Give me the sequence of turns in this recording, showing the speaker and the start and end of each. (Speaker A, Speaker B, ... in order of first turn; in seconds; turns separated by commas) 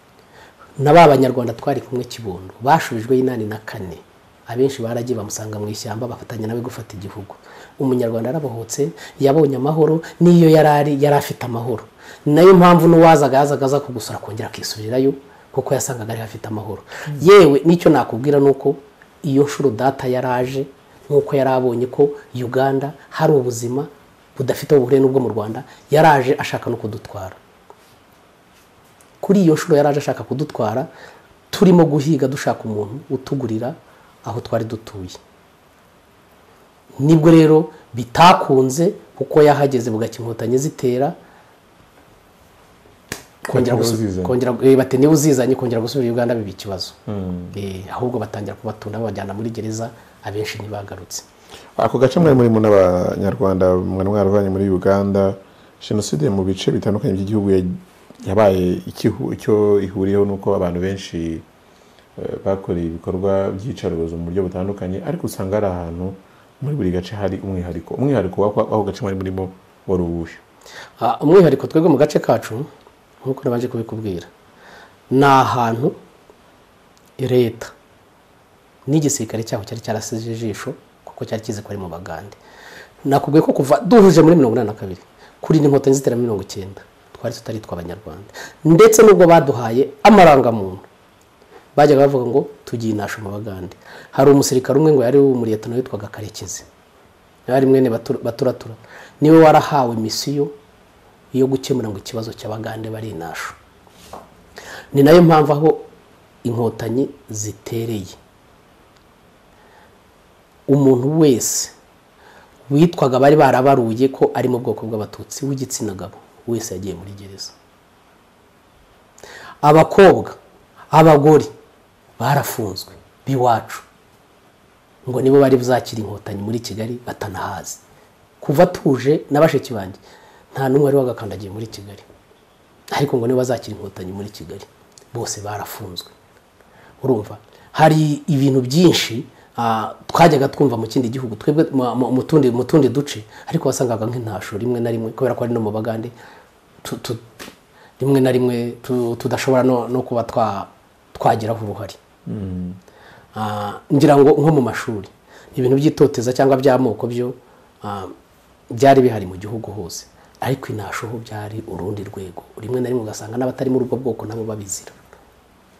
Speaker A: 0.8-27.4, Speaker A: 29.2-30.9, Speaker A: 31.5-35.2, Speaker A: 37.0-41.1, Speaker B: 43.5-44.4, Speaker A: 43.5-47.0, Speaker B: 47.1-47.6, Speaker A: 47.5-51.2, Speaker B: 51.8-61.5, Speaker B: 62.2-70.4, Speaker A: 71.0-72.7, Speaker A: 73.2-74.3, Speaker A: 75.1-76.0, Speaker A: 77.2-77.7, Speaker A: 78.9-82.4, Speaker A: 83.0-90.8, Speaker A: 91.8-96.7, Speaker A: 97.5-100.5, Speaker A: 101.3-103.5, Speaker A: 104.9-105.8, Speaker A: 106.4-108.2, Speaker A: 110.7-111.7, Speaker A: 112.7-117.5, Speaker A: 119.6-120.4, Speaker A: 120.9-121.5, Speaker A: 122.2-123.8, Speaker A: 125.0-127.8, Speaker A: 128.4-130.0, Speaker A: 130.5-132.1, Speaker A: 132.9-136.1, Speaker A: 137.0-146.1, Speaker A: 146.8-147.2, Speaker A: 148.0-152.0, Speaker B: 152.2-152.8, Speaker A: 153.3-158.1, Speaker A: 158.7-165.0